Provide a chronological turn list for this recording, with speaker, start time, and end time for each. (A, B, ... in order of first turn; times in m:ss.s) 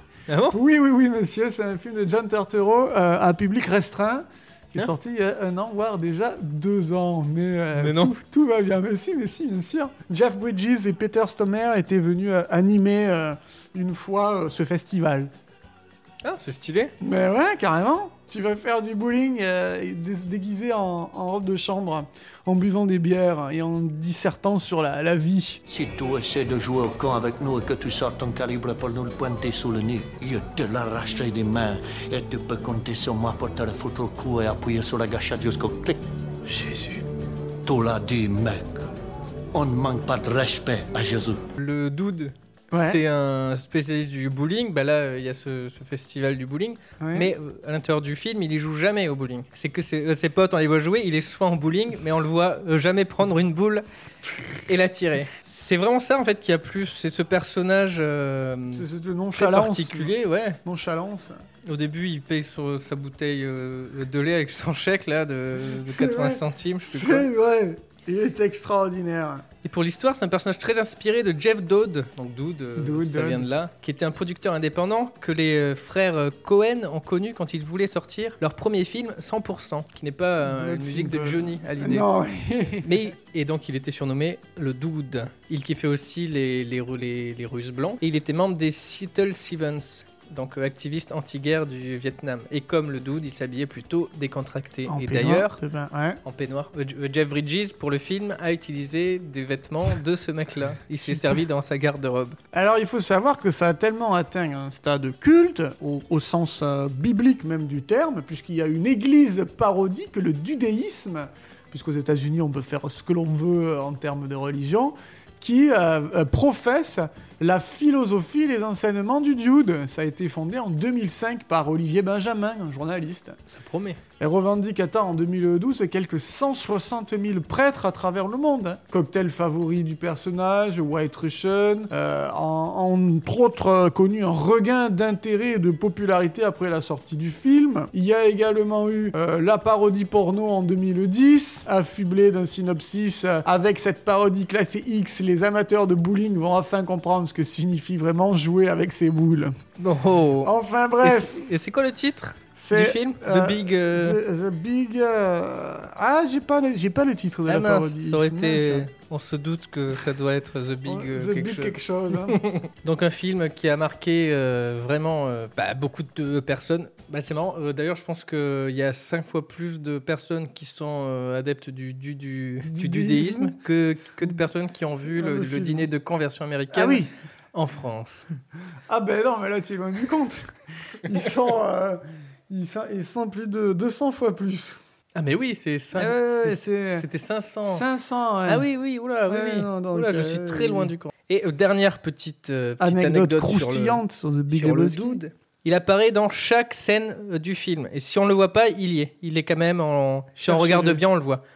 0:00.3-0:00.6 A
0:00.5-0:15.3 B
0:07.8-0:08.1 A
0:16.2-0:16.9 A
0:17.0-0:25.6 B
0:25.7-0:37.0 C
0:37.6-0:38.9 C
0:39.5-0:41.4 C
0:41.6-0:53.8 A
0:42.7-0:43.0 B
0:47.0-0:47.3 B
0:54.7-1:00.6 A
0:58.7-1:01.4 B
1:01.6-1:07.3 A
1:05.6-1:09.4 B
1:09.6-1:22.1 A
1:12.8-1:13.5 B
1:20.4-1:22.9 B
1:22.8-1:35.6 A
1:34.9-1:36.2 B
1:36.2-1:42.4 A
1:41.0-1:41.4 B
1:42.5-2:03.4 B
2:03.5-2:04.0 A
2:04.2-2:29.5 B
2:29.8-2:34.2 A
2:30.4-2:31.4 B
2:32.5-2:38.9 B
2:37.5-2:58.2 A
2:40.8-2:42.4 B
2:52.6-2:53.6 B
2:55.0-2:55.9 B
2:56.7-2:57.1 B
2:58.9-3:00.5 B
3:01.0-3:04.8 B
3:05.1-3:07.8 A
3:05.9-3:07.1 B
3:07.7-3:08.7 B
3:08.4-3:21.4 A
3:09.3-3:10.9 B
3:12.8-3:15.2 B
3:20.4-3:21.0 B